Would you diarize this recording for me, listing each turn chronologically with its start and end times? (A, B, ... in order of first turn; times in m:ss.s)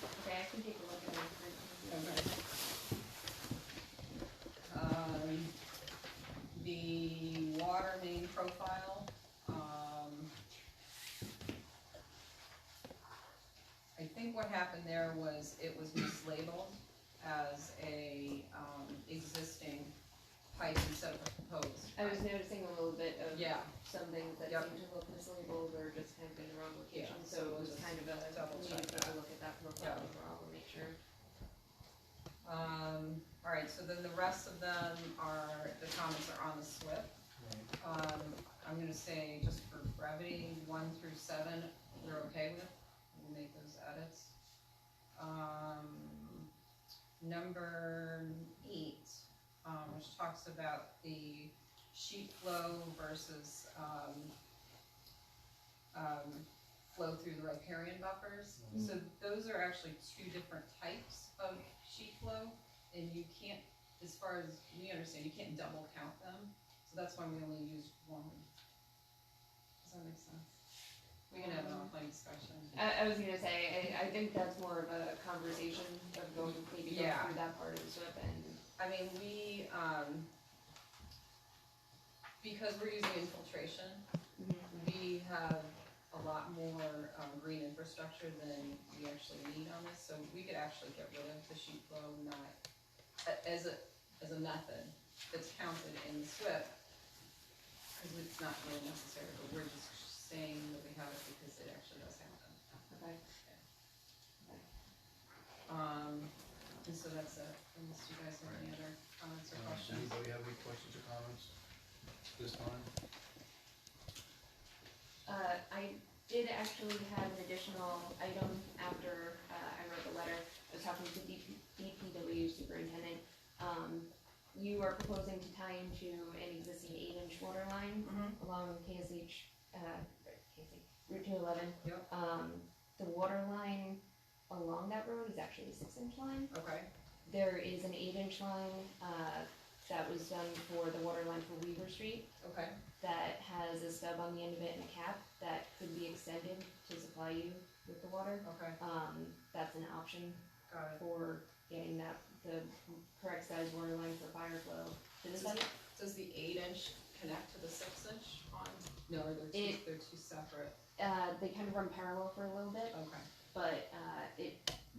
0:00.2-0:02.4 A
0:01.9-0:02.3 B
0:04.7-0:05.5 B
0:06.5-0:10.3 B
0:14.0-0:20.0 B
0:20.5-0:22.2 B
0:22.0-0:31.0 A
0:23.3-0:23.7 B
0:26.9-0:29.2 B
0:29.8-0:30.1 B
0:32.4-0:37.2 B
0:37.4-0:37.7 C
0:37.8-0:44.3 B
0:45.2-0:46.5 B
0:47.2-0:54.3 B
0:55.9-1:08.4 B
0:58.6-0:58.9 C
1:09.8-1:10.5 B
1:11.3-1:12.8 B
1:11.3-1:11.9 A
1:12.7-1:18.6 A
1:16.9-1:17.4 B
1:18.8-1:20.3 B
1:22.4-1:24.0 B
1:24.4-1:24.7 A
1:24.7-1:32.6 B
1:33.2-1:36.8 B
1:38.0-1:43.6 B
1:42.9-1:43.2 A
1:45.7-1:46.3 B
1:46.8-1:50.2 B
1:49.5-1:51.5 C
1:52.4-1:52.9 C
1:55.3-2:16.5 A
2:08.0-2:08.4 B
2:11.8-2:12.1 B
2:16.5-2:16.9 B
2:17.3-2:22.3 A
2:22.4-2:22.8 B
2:23.0-2:35.7 A
2:28.4-2:28.8 B
2:30.7-2:31.0 B
2:35.3-2:40.8 B
2:39.5-2:39.8 A
2:41.0-2:43.0 A
2:42.9-2:43.3 B
2:43.5-2:44.7 A